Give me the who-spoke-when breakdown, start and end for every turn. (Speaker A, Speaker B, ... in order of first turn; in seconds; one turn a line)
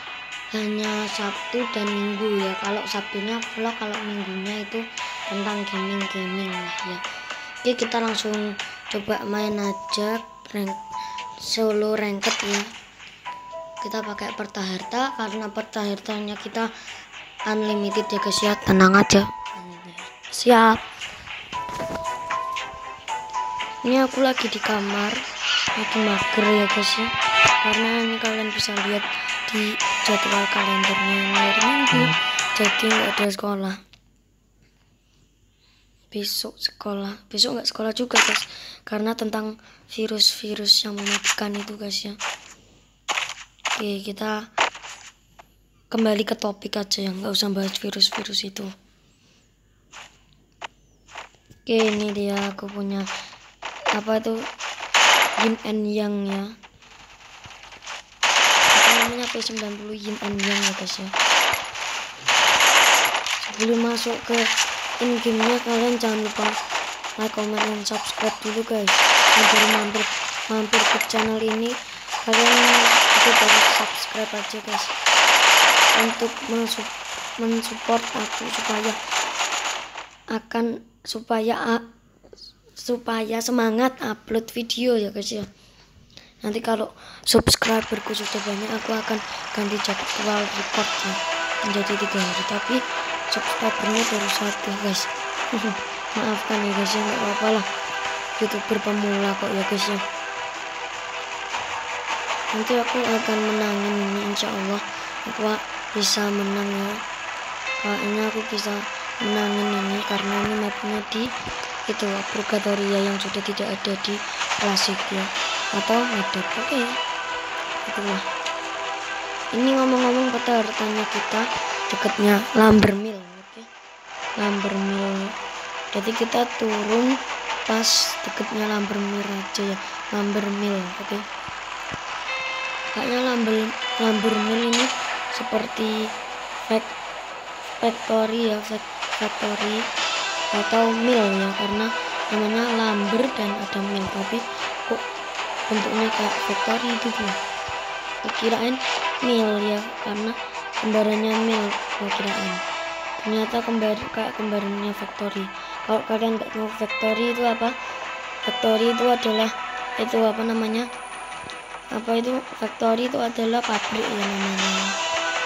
Speaker A: 0.5-7.0
Speaker A: 7.6-10.8
Speaker A: 11.4-12.7
Speaker A: 13.8-16.7
Speaker A: 17.5-20.8
Speaker A: 23.8-25.2
Speaker A: 25.8-27.1
Speaker A: 27.6-33.8
Speaker A: 36.1-42.2
Speaker A: 43.8-44.5
Speaker A: 45.9-48.7
Speaker A: 51.6-53.1
Speaker A: 53.9-54.5
Speaker A: 55.4-56.5
Speaker A: 58.7-61.1
Speaker A: 63.4-64.5
Speaker A: 65.0-66.5
Speaker A: 67.2-74.9
Speaker A: 75.9-79.0
Speaker A: 80.3-81.8
Speaker A: 82.7-85.5
Speaker A: 86.4-97.7
Speaker A: 98.4-100.0
Speaker A: 102.5-107.0
Speaker A: 107.8-111.3
Speaker A: 111.8-117.0
Speaker A: 117.8-118.2
Speaker A: 119.5-123.7
Speaker A: 124.4-125.3
Speaker A: 125.9-131.2
Speaker A: 132.9-136.1
Speaker A: 136.7-136.9
Speaker A: 137.8-139.9
Speaker A: 140.5-145.0
Speaker A: 145.7-147.4
Speaker A: 148.2-152.6
Speaker A: 153.2-157.7
Speaker A: 158.4-160.9
Speaker A: 161.9-164.9